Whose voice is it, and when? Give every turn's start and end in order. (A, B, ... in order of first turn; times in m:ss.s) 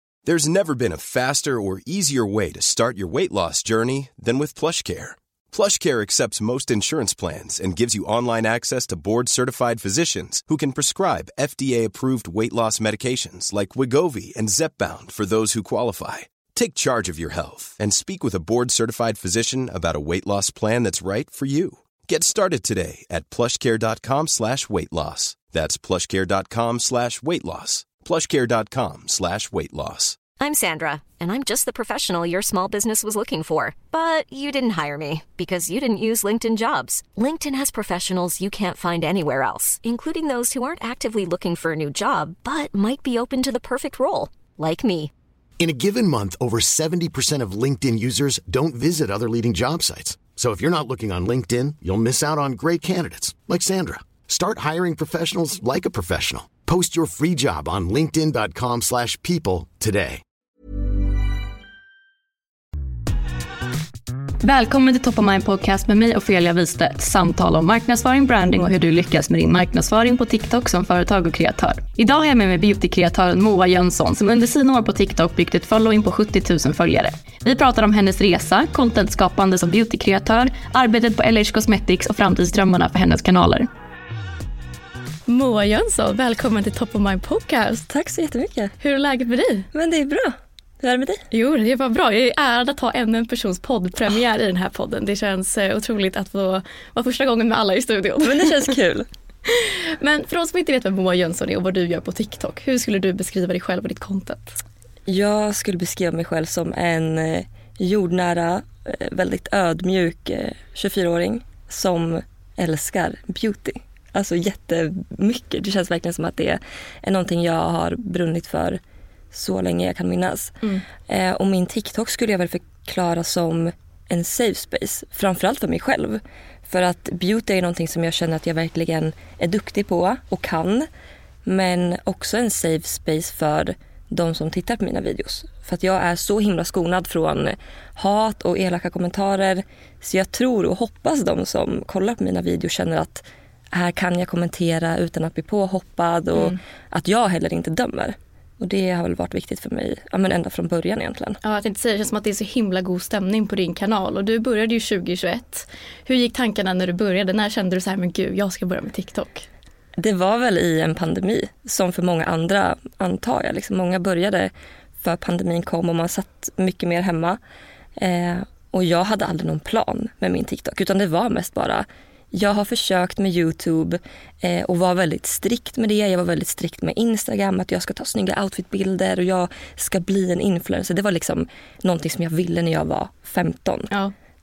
0:00.2-0:30.2 A
0:30.4-0:45.1 B
0:45.6-1:00.2 C
1:04.4-1:23.7 D
1:25.3-1:27.8 D
1:27.9-1:28.7 E
1:28.8-1:29.7 D
1:29.7-1:31.2 E
1:31.3-1:38.7 D
1:38.2-1:39.1 E
1:39.4-1:44.6 D
1:45.1-1:58.8 E
1:59.3-2:10.9 E
2:11.4-2:31.4 E
2:31.4-2:39.5 D
2:40.0-2:44.5 E
2:45.0-2:47.4 E
2:48.0-3:03.9 E